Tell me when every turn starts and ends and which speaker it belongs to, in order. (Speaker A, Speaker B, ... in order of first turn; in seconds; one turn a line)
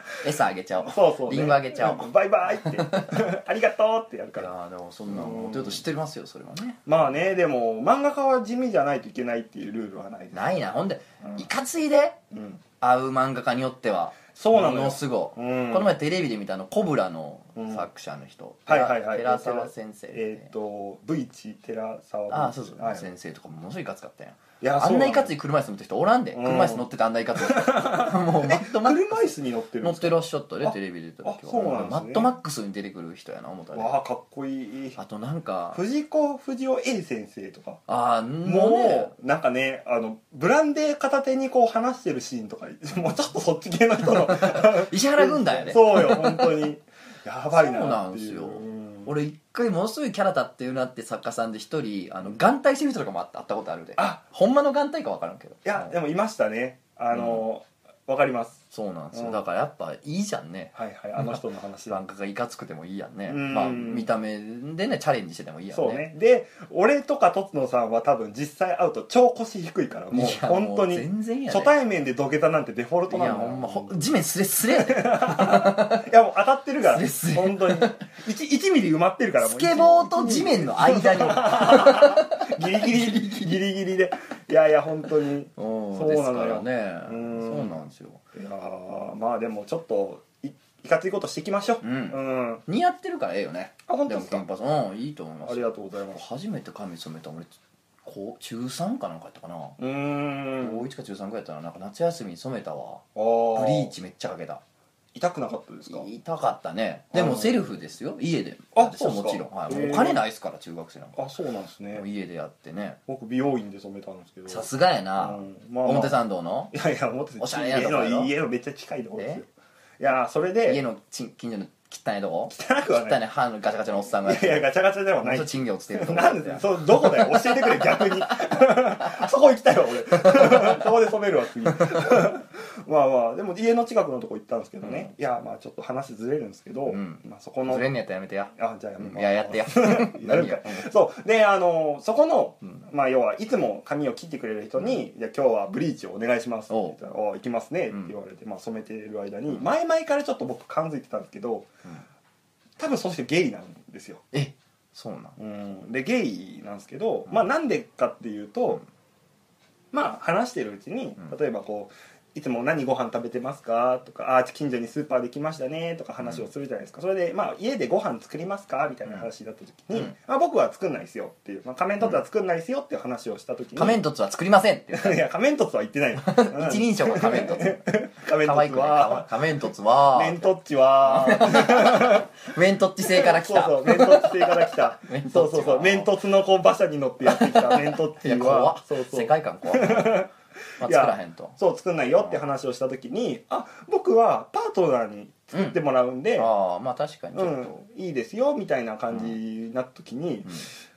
Speaker A: 0.2-3.2
Speaker B: 0.9-4.5
Speaker A: 4.4-6.8
Speaker B: 5.1-5.8
Speaker B: 6.9-10.6
Speaker A: 10.3-12.2
Speaker B: 12.3-12.6
Speaker A: 12.8-20.5
Speaker B: 14.3-15.9
Speaker B: 17.6-17.9
Speaker B: 18.7-23.1
Speaker A: 22.3-29.3
Speaker B: 24.6-25.3
Speaker B: 26.3-26.9
Speaker B: 27.4-32.3
Speaker A: 29.8-34.0
Speaker B: 33.7-35.0
Speaker A: 35.0-35.8
Speaker B: 35.7-37.8
Speaker A: 37.9-39.1
Speaker B: 38.4-49.1
Speaker A: 44.1-46.7
Speaker A: 47.5-55.9
Speaker B: 55.6-58.6
Speaker A: 57.1-57.4
Speaker A: 58.7-66.1
Speaker B: 59.1-59.4
Speaker B: 60.8-62.0
Speaker B: 63.3-64.1
Speaker B: 65.7-74.1
Speaker A: 70.1-71.7
Speaker A: 73.1-76.1
Speaker B: 74.8-87.8
Speaker A: 76.8-78.0
Speaker A: 79.4-83.6
Speaker A: 85.6-88.2
Speaker B: 88.3-92.6
Speaker A: 91.8-97.5
Speaker B: 93.9-94.4
Speaker B: 95.5-96.2
Speaker A: 98.0-99.8
Speaker B: 99.8-100.8
Speaker A: 100.6-104.6
Speaker B: 103.2-103.9
Speaker B: 105.2-106.1
Speaker A: 105.9-111.2
Speaker B: 107.1-107.7
Speaker B: 108.8-110.2
Speaker B: 111.2-112.0
Speaker A: 111.9-113.0
Speaker B: 113.1-114.7
Speaker A: 114.5-116.7
Speaker B: 115.2-116.2
Speaker B: 116.7-119.5
Speaker A: 117.4-118.3
Speaker A: 119.2-119.4
Speaker B: 120.0-120.8
Speaker A: 120.7-124.7
Speaker B: 122.5-123.2
Speaker B: 124.2-137.9
Speaker A: 125.2-129.1
Speaker A: 130.3-130.8
Speaker A: 131.7-132.3
Speaker A: 134.8-135.1
Speaker A: 136.9-140.9
Speaker B: 138.6-151.7
Speaker A: 146.7-147.0
Speaker B: 152.8-154.2
Speaker A: 154.3-155.4
Speaker B: 155.4-158.8
Speaker B: 159.9-174.0
Speaker A: 173.8-175.2
Speaker B: 174.9-179.3
Speaker A: 176.2-186.1
Speaker B: 180.1-182.3
Speaker B: 183.0-196.5
Speaker A: 187.2-190.2
Speaker A: 190.8-191.6
Speaker A: 196.4-197.8
Speaker B: 197.3-200.5